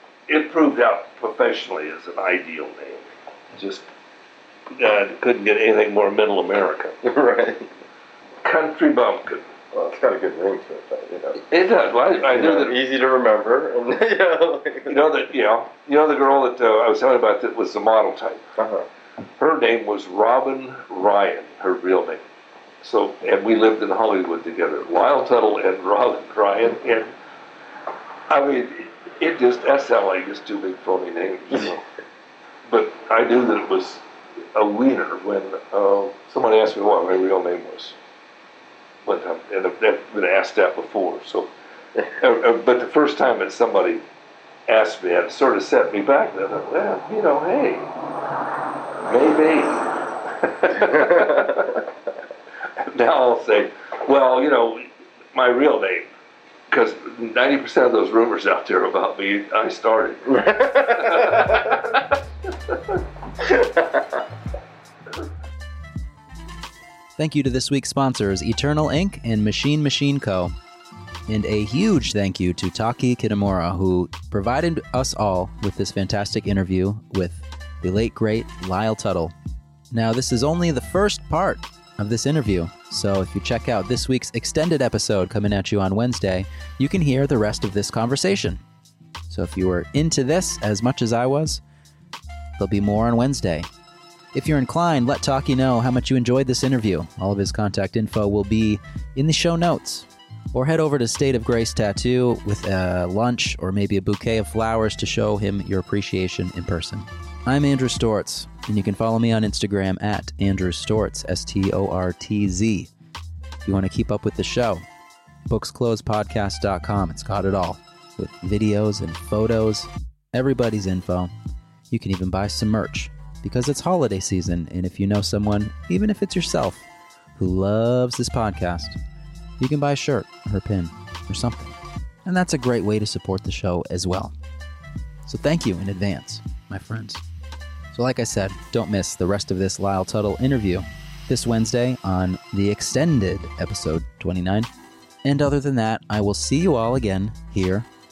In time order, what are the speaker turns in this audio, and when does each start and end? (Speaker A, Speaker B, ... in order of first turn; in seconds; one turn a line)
Speaker A: 0.3-3.8
Speaker A: 4.7-6.9
Speaker B: 7.0-7.7
Speaker A: 8.4-9.4
Speaker B: 9.7-11.4
Speaker A: 11.4-12.8
Speaker B: 12.3-15.1
Speaker A: 14.9-18.4
Speaker B: 18.6-18.9
Speaker A: 19.4-22.2
Speaker A: 22.8-27.1
Speaker A: 28.3-31.8
Speaker B: 31.5-31.8
Speaker A: 32.7-34.0
Speaker A: 34.5-37.9
Speaker A: 39.0-41.5
Speaker A: 42.2-44.0
Speaker A: 44.7-47.9
Speaker A: 49.0-51.8
Speaker A: 52.8-56.1
Speaker A: 56.7-62.1
Speaker B: 60.3-61.7
Speaker B: 63.4-64.0
Speaker C: 67.2-70.5
Speaker C: 71.3-79.3
Speaker C: 79.9-88.6
Speaker C: 89.3-91.6
Speaker C: 92.6-93.7
Speaker C: 94.3-112.9
Speaker C: 113.6-114.8
Speaker C: 115.5-121.3
Speaker C: 121.9-126.8
Speaker C: 127.4-129.0
Speaker C: 129.6-134.3
Speaker C: 135.2-137.2
Speaker C: 137.9-144.7
Speaker C: 145.2-147.9